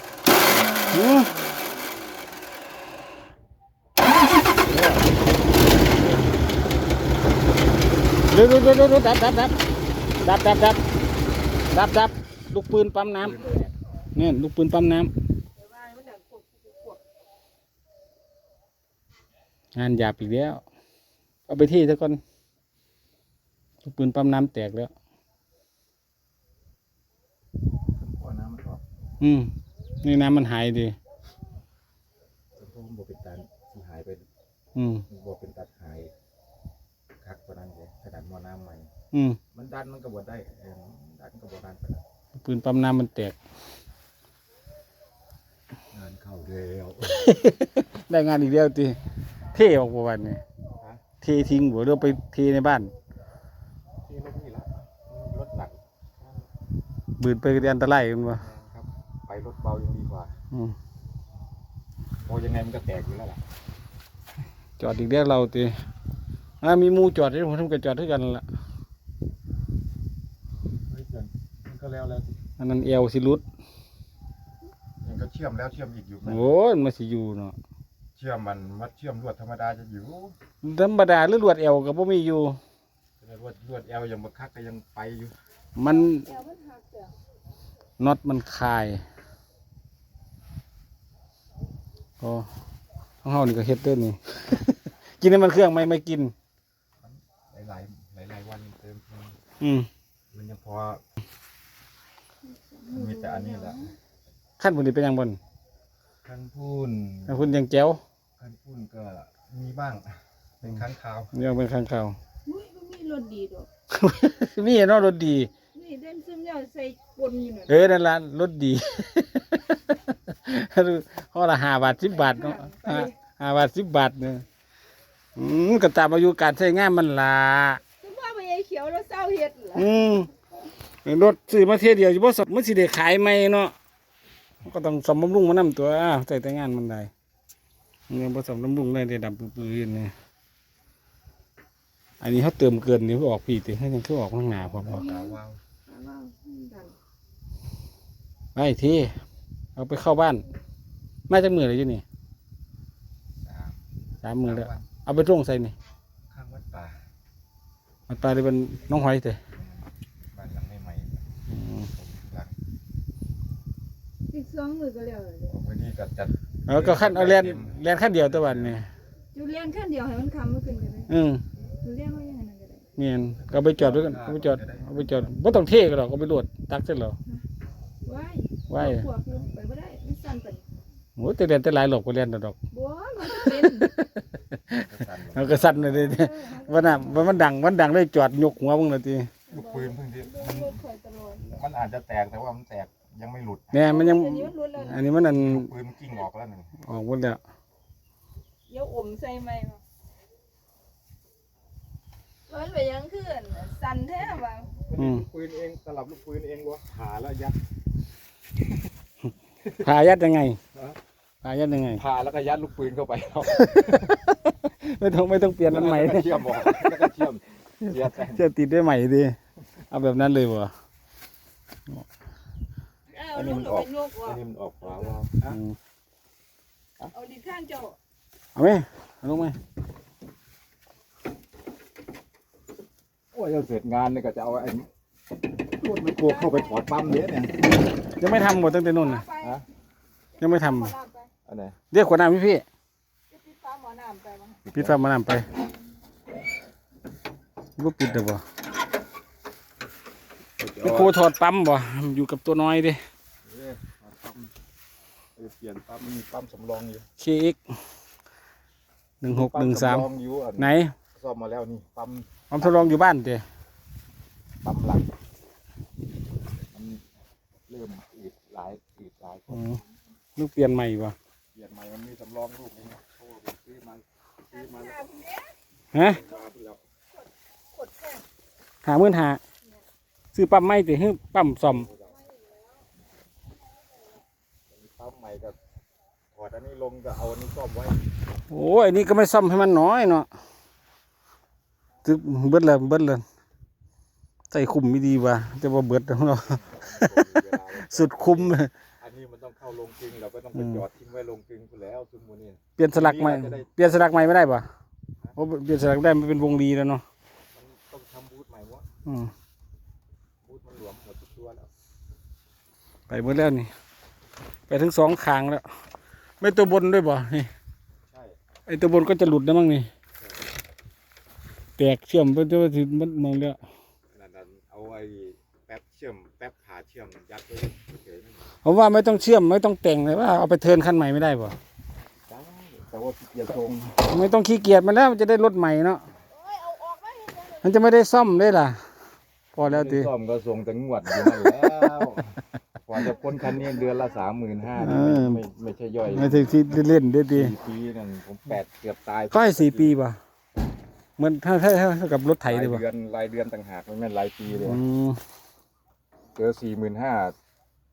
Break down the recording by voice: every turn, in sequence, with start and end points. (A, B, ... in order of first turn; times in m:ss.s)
0:00.9-0:01.3 A
0:04.7-0:05.0 A
0:08.3-0:09.6 A
0:10.2-0:10.8 A
0:11.7-0:13.5 A
0:13.3-0:13.7 B
0:14.2-0:15.1 A
0:15.6-0:17.0 C
0:19.7-0:20.6 A
0:21.5-0:22.2 A
0:23.8-0:24.9 A
0:27.9-0:28.8 B
0:29.2-0:29.5 A
0:30.0-0:31.0 A
0:32.6-0:34.3 B
0:34.8-0:35.0 A
0:35.1-0:36.1 B
0:37.2-0:38.9 B
0:39.1-0:39.4 A
0:39.5-0:42.0 B
0:42.4-0:43.4 A
0:45.9-0:47.3 B
0:47.2-0:49.0 A
0:49.5-0:50.4 A
0:51.2-0:52.9 A
0:54.1-0:56.5 B
0:57.2-0:58.4 A
0:58.3-1:00.3 B
1:02.2-1:03.4 B
1:04.8-1:05.7 A
1:06.6-1:08.4 A
1:10.8-1:12.4 B
1:12.6-1:13.4 A
1:15.0-1:16.5 B
1:16.2-1:17.6 A
1:18.2-1:20.4 B
1:20.6-1:22.6 A
1:23.2-1:25.3 B
1:25.8-1:26.3 A
1:25.8-1:27.2 C
1:28.0-1:29.0 A
1:32.2-1:32.5 A
1:33.2-1:36.3 A
1:37.0-1:39.4 B
1:39.6-1:39.9 A
1:40.3-1:41.0 B
1:42.4-1:43.9 C
1:42.9-1:43.9 B
1:44.6-1:45.4 A
1:46.2-1:47.5 B
1:47.3-1:48.0 A
1:48.4-1:51.3 B
1:51.3-1:52.2 A
1:52.5-1:53.7 C
1:53.9-1:55.5 A
1:55.7-1:57.8 C
1:57.7-2:04.4 A
2:02.0-2:03.1 C
2:05.4-2:07.8 A
2:08.0-2:10.2 C
2:09.8-2:10.3 A
2:11.0-2:13.7 A
2:14.6-2:17.1 A
2:18.1-2:20.1 A
2:22.2-2:25.1 A
2:24.5-2:25.6 B
2:24.9-2:25.4 C
2:25.9-2:27.0 C
2:28.6-2:29.2 A
2:29.8-2:30.4 A
2:31.3-2:32.0 A
2:33.4-2:33.8 B
2:34.2-2:35.8 A
2:34.4-2:34.9 B
2:36.2-2:37.0 B
2:38.1-2:39.4 A
2:39.6-2:41.3 B
2:41.5-2:41.9 A
2:41.9-2:42.6 B
2:44.3-2:45.5 C
2:45.5-2:48.8 B
2:46.7-2:48.9 A
2:49.3-2:51.1 C
2:51.1-2:51.4 A
2:51.8-2:52.8 C
2:53.0-2:57.2 A
2:53.3-2:55.3 B
2:58.0-3:00.6 C
2:58.7-2:59.1 A
3:01.2-3:02.6 A
3:02.7-3:03.9 C
3:03.4-3:04.2 A
3:04.7-3:06.2 B
3:05.3-3:09.3 A
3:06.0-3:07.4 C
3:09.5-3:11.6 C
3:09.5-3:10.8 B
3:11.5-3:13.9 B
3:13.7-3:15.7 A
3:13.8-3:15.1 C
3:15.0-3:16.7 B
3:16.8-3:17.4 A
3:18.7-3:19.8 C
3:22.5-3:24.7 C
3:24.8-3:27.6 B
3:25.0-3:25.2 A
3:29.8-3:30.6 A
3:31.4-3:32.0 A
3:32.0-3:34.2 B
3:33.8-3:37.1 A
3:35.7-3:38.4 B
3:37.9-3:39.4 A
3:39.9-3:40.7 A
3:43.1-3:45.1 C
3:43.3-3:45.6 B
3:45.5-3:45.8 A
3:47.1-3:48.0 C
3:48.6-3:49.6 A
3:53.3-3:54.9 B
3:55.7-3:57.7 B
3:56.2-3:56.6 C
3:58.2-3:59.3 A
3:58.7-3:59.6 C
3:59.4-3:59.6 B
4:00.4-4:00.9 A
4:00.4-4:01.3 C
4:01.5-4:01.8 B
4:01.9-4:02.6 A
4:03.3-4:04.6 C
4:04.6-4:05.0 B
4:04.7-4:05.5 A
4:07.8-4:08.4 A
4:10.6-4:11.1 B
4:10.8-4:13.0 A
4:13.4-4:14.5 B
4:15.4-4:17.1 B
4:17.2-4:17.6 A
4:19.2-4:20.1 A
4:19.3-4:22.9 B
4:20.6-4:20.9 A
4:22.5-4:23.4 A
4:24.6-4:25.1 B
4:26.7-4:27.0 B
4:27.7-4:29.8 B
4:29.5-4:29.8 A
4:30.4-4:31.2 A
4:31.5-4:35.1 B
4:34.5-4:35.6 C
4:35.9-4:36.2 A
4:36.1-4:36.8 B
4:37.2-4:38.2 C
4:38.8-4:39.4 A
4:40.3-4:41.9 A
4:41.6-4:42.2 B
4:44.7-4:45.6 B
4:46.3-4:48.0 B
4:48.5-4:50.3 A
4:52.0-4:53.2 A
4:54.5-4:56.5 A
4:56.2-5:04.3 B
4:57.9-4:58.7 A
5:00.6-5:00.8 A
5:02.8-5:04.7 A
5:05.4-5:07.0 A
5:07.5-5:08.9 B
5:09.1-5:09.3 A
5:10.4-5:11.7 B
5:13.1-5:13.7 A
5:14.7-5:15.6 A
5:16.4-5:17.5 A
5:18.1-5:18.4 B
5:18.7-5:19.9 A
5:21.8-5:23.6 A
5:24.1-5:28.5 B
5:28.6-5:31.6 A
5:32.3-5:34.1 B
5:34.0-5:36.0 A
5:36.3-5:37.6 C
5:37.6-5:38.8 A
5:39.6-5:40.1 A
5:39.6-5:46.7 B
5:44.8-5:45.4 A
5:46.1-5:47.5 A
5:47.3-5:50.0 B
5:49.3-5:50.2 A
5:51.2-5:52.8 A
5:52.4-5:54.8 B
5:54.6-5:55.2 A
5:56.4-5:57.4 B